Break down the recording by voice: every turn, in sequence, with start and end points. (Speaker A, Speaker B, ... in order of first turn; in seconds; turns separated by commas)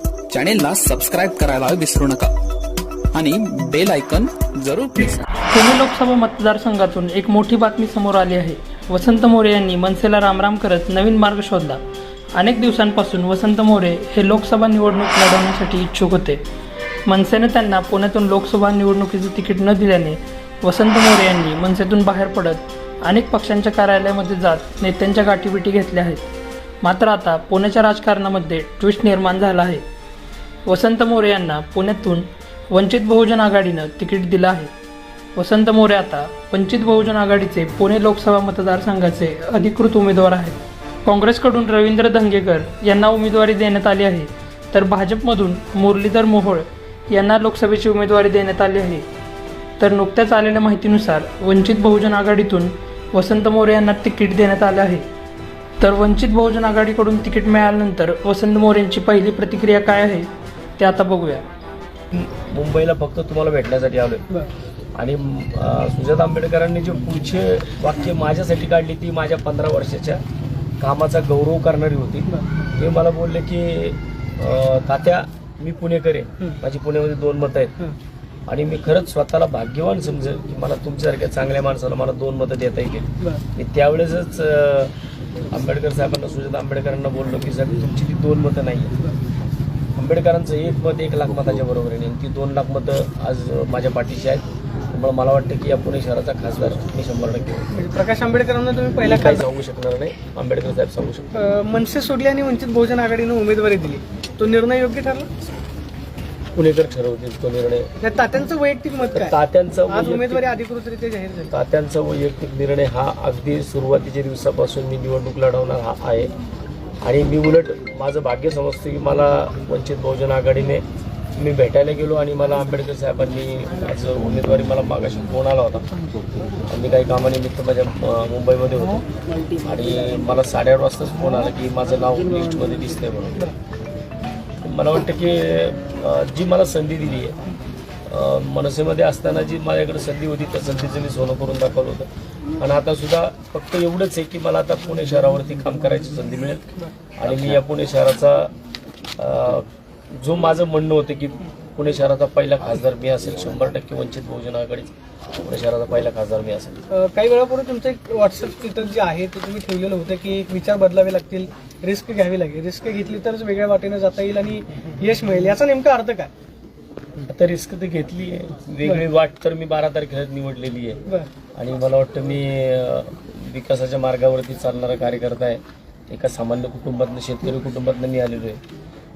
Speaker A: 0.3-2.3, Speaker A: 3.1-5.2, Speaker B: 5.5-11.8, Speaker B: 12.3-16.4, Speaker B: 17.1-26.3, Speaker B: 26.8-29.8, Speaker B: 30.6-34.7, Speaker B: 35.3-49.1, Speaker B: 49.8-55.0, Speaker B: 55.8-61.5, Speaker C: 62.1-64.2, Speaker C: 65.0-70.2, Speaker C: 70.8-77.8, Speaker C: 78.5-84.9, Speaker C: 85.5-88.9, Speaker C: 90.0-97.7, Speaker D: 97.7-99.4, Speaker C: 99.0-101.3, Speaker D: 101.3-105.3, Speaker C: 106.5-107.9, Speaker D: 108.0-111.5, Speaker C: 109.1-110.4, Speaker C: 111.5-116.3, Speaker C: 117.0-120.8, Speaker C: 121.3-125.9, Speaker C: 126.7-129.1, Speaker C: 129.6-133.5, Speaker C: 134.6-137.4, Speaker C: 138.1-142.1, Speaker C: 142.6-146.6, Speaker C: 147.2-148.5, Speaker C: 149.2-156.8, Speaker D: 156.9-166.3, Speaker C: 167.3-171.0, Speaker C: 171.5-178.6